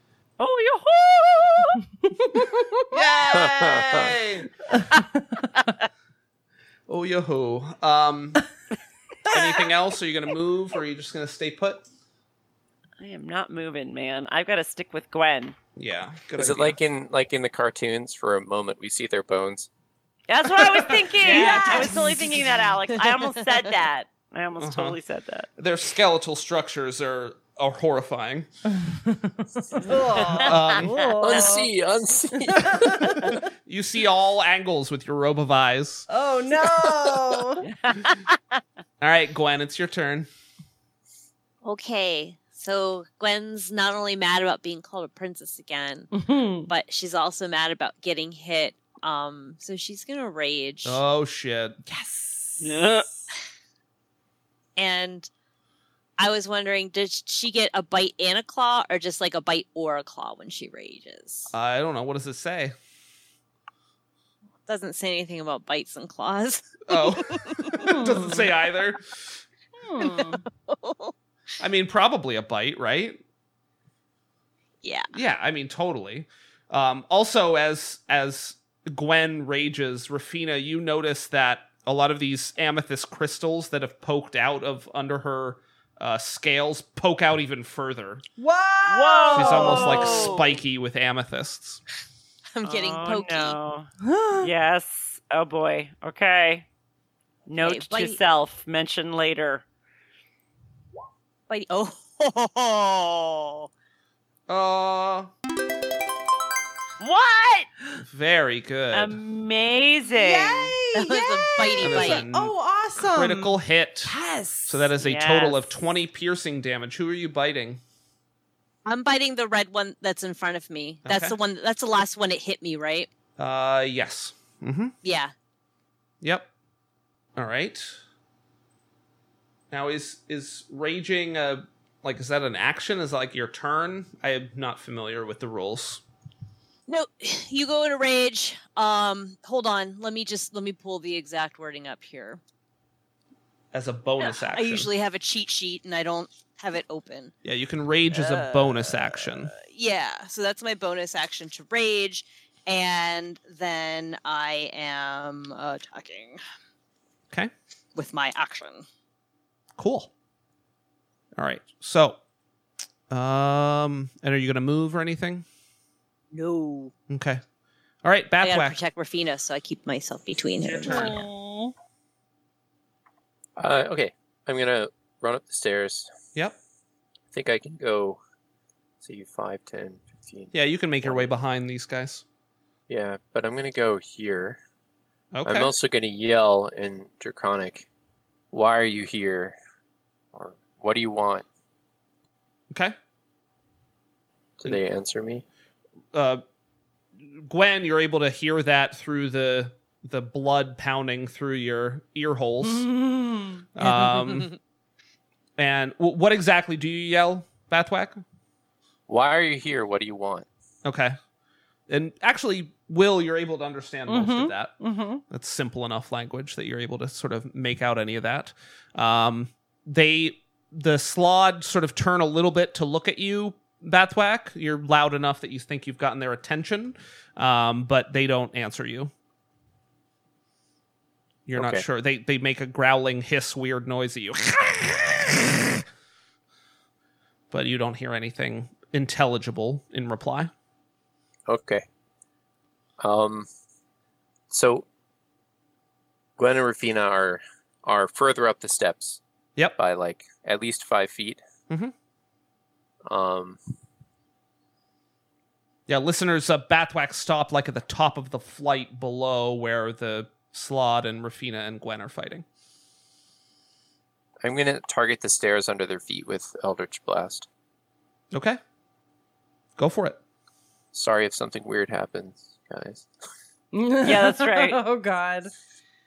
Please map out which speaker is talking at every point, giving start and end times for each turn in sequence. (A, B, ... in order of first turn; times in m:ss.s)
0:00.4-0:01.8 A
0:02.2-0:02.8 B
0:02.9-0:04.5 C
0:03.3-0:04.1 D
0:04.8-0:05.5 B
0:06.9-0:08.4 C
0:09.3-0:11.8 C
0:09.3-0:09.6 B
0:13.0-0:15.6 A
0:15.8-0:16.8 C
0:16.4-0:19.7 D
0:20.3-0:25.5 A
0:21.1-0:22.0 C
0:21.2-0:22.7 B
0:24.6-0:25.0 C
0:25.6-0:28.5 C
0:28.9-0:31.7 B
0:30.1-0:30.5 A
0:30.3-0:31.0 C
0:31.2-0:33.3 D
0:32.4-0:33.4 B
0:33.6-0:36.1 C
0:36.1-0:37.7 B
0:36.7-0:37.2 D
0:37.7-0:38.2 A
0:39.0-0:40.3 C
0:41.6-0:46.1 E
0:46.1-0:46.7 B
0:46.7-0:51.0 E
0:50.8-0:51.8 C
0:51.9-0:53.2 B
0:52.6-0:53.0 A
0:54.8-0:55.3 E
0:56.2-1:01.5 E
1:01.5-1:02.8 C
1:04.7-1:07.8 E
1:06.9-1:09.3 C
1:07.8-1:08.5 B
1:09.8-1:10.4 B
1:10.0-1:11.1 E
1:11.6-1:13.2 C
1:14.8-1:15.1 E
1:15.1-1:28.2 C
1:28.4-1:30.4 B
1:28.9-1:30.5 A
1:29.3-1:31.8 C
1:32.5-1:33.6 E
1:32.6-1:36.7 A
1:34.0-1:34.5 B
1:37.5-1:39.6 A
1:37.6-1:38.2 E
1:41.5-1:43.7 E
1:44.5-1:45.3 C
1:47.0-1:47.7 A
1:48.0-1:49.2 C
1:48.9-1:50.8 A
1:50.0-1:54.9 B
1:51.0-1:52.2 E
1:51.8-1:54.2 C
1:54.7-1:57.8 C
1:55.0-1:55.7 A
1:58.8-2:03.1 E
2:01.0-2:01.4 C
2:03.4-2:04.9 C
2:05.0-2:05.3 E
2:06.2-2:06.5 C
2:07.4-2:08.0 C
2:09.7-2:16.0 C
2:16.9-2:22.4 E
2:23.7-2:24.9 C
2:24.2-2:27.3 E
2:27.4-2:29.5 C
2:28.1-2:36.4 E
2:38.0-2:38.8 E
2:39.8-2:40.1 C
2:41.4-2:42.2 C
2:43.1-2:45.5 C
2:46.3-2:46.9 E
2:47.1-2:47.4 C
2:48.0-2:48.8 C
2:48.4-2:51.2 E
2:50.6-2:51.3 C
2:50.8-2:51.7 B
2:53.6-2:56.1 D
2:57.3-2:58.2 D
2:59.0-3:01.3 D
3:00.5-3:02.2 C
3:02.9-3:04.6 D
3:05.3-3:05.7 C
3:05.4-3:07.9 D
3:08.5-3:09.6 D
3:10.3-3:11.4 D
3:14.6-3:15.4 D
3:16.1-3:16.4 C
3:17.2-3:22.9 C
3:22.6-3:24.2 B
3:23.8-3:24.6 C
3:25.6-3:28.2 C
3:29.1-3:30.5 D
3:30.8-3:31.2 C
3:31.9-3:34.7 C
3:34.1-3:35.2 B
3:35.3-3:49.1 C
3:51.5-3:55.8 C
3:51.6-3:51.8 D
3:57.5-4:00.5 C
4:01.5-4:01.8 D
4:03.0-4:03.5 D
4:04.5-4:04.9 D
4:06.4-4:09.2 D
4:09.8-4:11.4 D
4:13.1-4:13.6 D
4:15.9-4:22.4 C
4:24.4-4:27.5 D
4:28.3-4:28.6 C
4:29.8-4:30.2 C
4:30.9-4:33.1 D
4:33.7-4:35.5 B
4:34.0-4:34.8 A